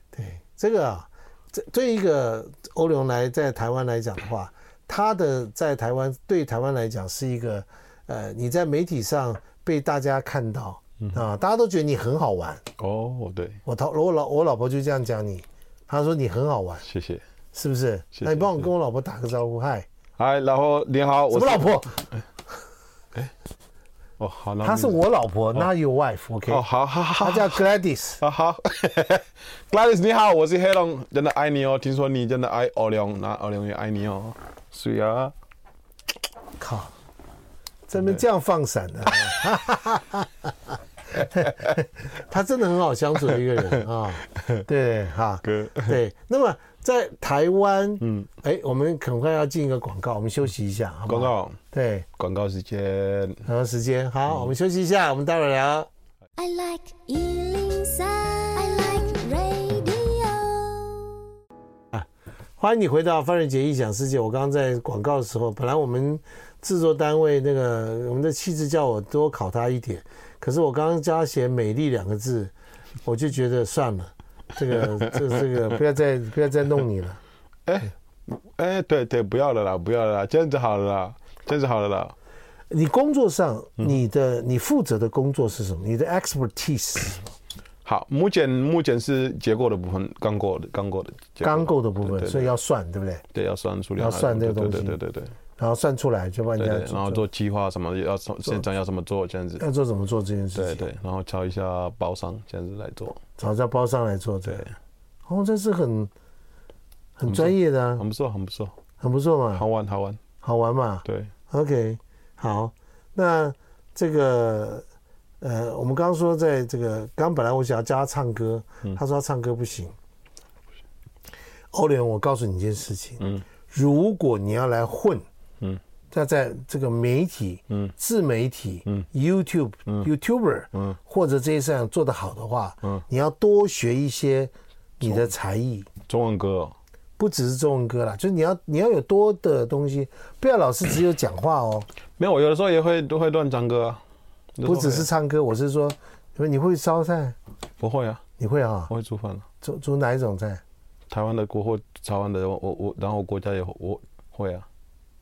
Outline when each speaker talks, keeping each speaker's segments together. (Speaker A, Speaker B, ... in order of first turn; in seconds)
Speaker A: 0.1-12.6, 13.7-16.9, 17.5-19.9, 21.3-22.1, 24.6-26.6, 27.2-28.2, 36.6-36.9, 37.9-40.5, 41.1-52.1, 53.5-55.9, 62.6-72.5, 73.0-77.2, 82.7-87.3, 91.4-93.2, 94.0-95.0, 95.6-97.2, 99.6-100.9, 103.4-104.7, 105.3-106.1, 107.2-108.0, 109.0-109.7, 110.4-114.8, 115.4-120.0, 121.7-125.2, 126.1-135.9, 137.2-141.9, 144.6-147.4, 148.4-148.9, 149.6-150.6
Speaker B: 12.8-13.6, 16.9-17.2, 18.1-18.7, 20.2-21.8, 24.2-25.0, 26.5-27.6, 28.2-35.3, 41.4-41.7, 44.4-44.6, 45.5-46.0, 48.0-48.3, 51.1-51.6, 52.2-53.5, 54.3-54.5, 75.0-75.4, 77.7-82.2, 87.8-92.5, 93.3-95.3, 96.6-99.6, 100.5-103.2, 104.5-104.7, 107.3-108.8, 109.5-110.2, 111.0-111.3, 135.0-135.3, 136.1-136.8, 142.2-144.0, 144.6-145.1, 147.8-148.2, 148.9-149.5, 151.1-154.7
Speaker C: 56.4-61.2